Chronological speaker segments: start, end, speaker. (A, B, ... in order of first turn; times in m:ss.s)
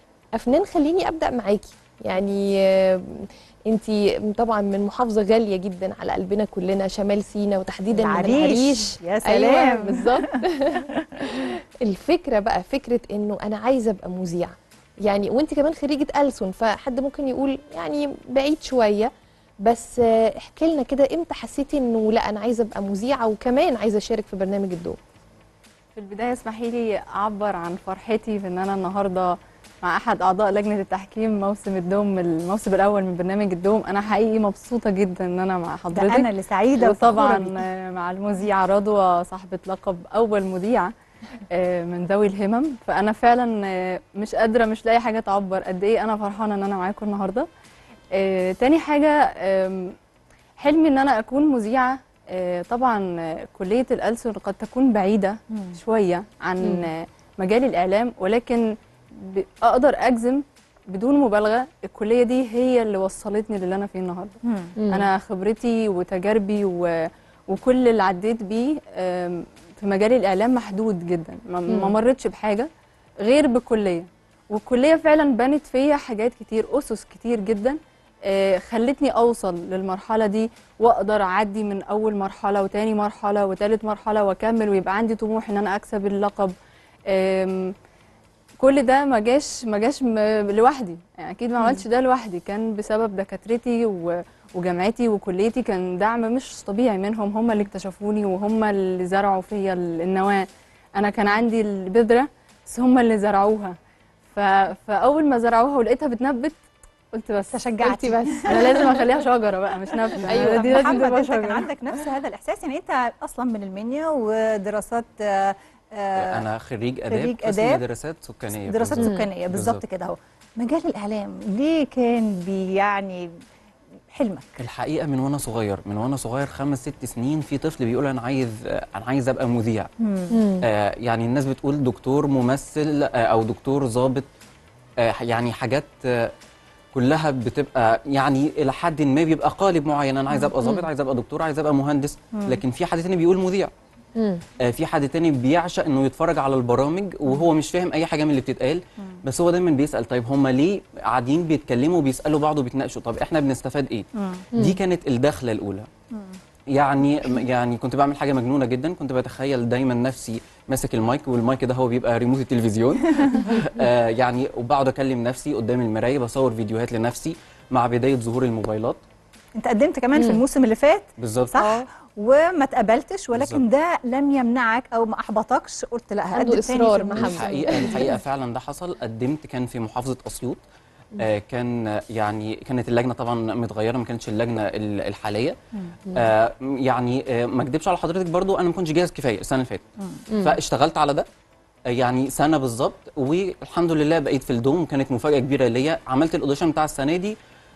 0:00.4-0:19.1 A
0:08.0-0:11.1 B
0:19.6-0:25.0 A
0:26.0-0:36.3 C
0:35.9-0:37.6 B
0:36.8-0:40.9 C
0:41.5-0:47.4 C
0:48.2-0:49.9 C
0:50.6-1:04.4 C
0:55.5-0:55.8 B
1:04.4-1:04.7 B
1:04.8-1:05.1 A
1:04.9-1:06.9 C
1:07.5-1:12.7 C
1:13.2-1:26.5 C
1:27.1-1:27.7 C
1:28.6-1:40.5 C
1:41.0-1:43.7 C
1:44.3-1:46.6 C
1:47.1-1:51.7 C
1:47.5-1:49.0 B
1:50.2-1:56.5 B
1:50.3-1:50.6 A
1:56.2-1:59.8 D
1:57.1-1:57.9 B
1:58.5-2:03.3 B
1:59.0-1:59.3 A
2:04.1-2:04.6 B
2:04.6-2:09.9 D
2:10.0-2:10.4 B
2:10.3-2:10.7 A
2:10.6-2:14.3 D
2:15.0-2:16.3 D
2:16.9-2:23.7 D
2:20.6-2:20.8 A
2:22.3-2:22.6 B
2:24.2-2:24.4 A
2:24.6-2:35.9 D
2:34.2-2:34.5 B
2:36.1-2:36.4 B
2:36.7-2:49.0 D
2:49.6-2:58.0 B
2:51.2-2:51.7 D
2:53.3-2:53.6 D
2:56.3-2:58.1 A
2:57.2-3:00.6 D
3:01.2-3:05.6 D
3:06.2-3:09.8 D
3:10.3-3:10.6 A
3:10.4-3:11.3 D
3:11.9-3:17.4 D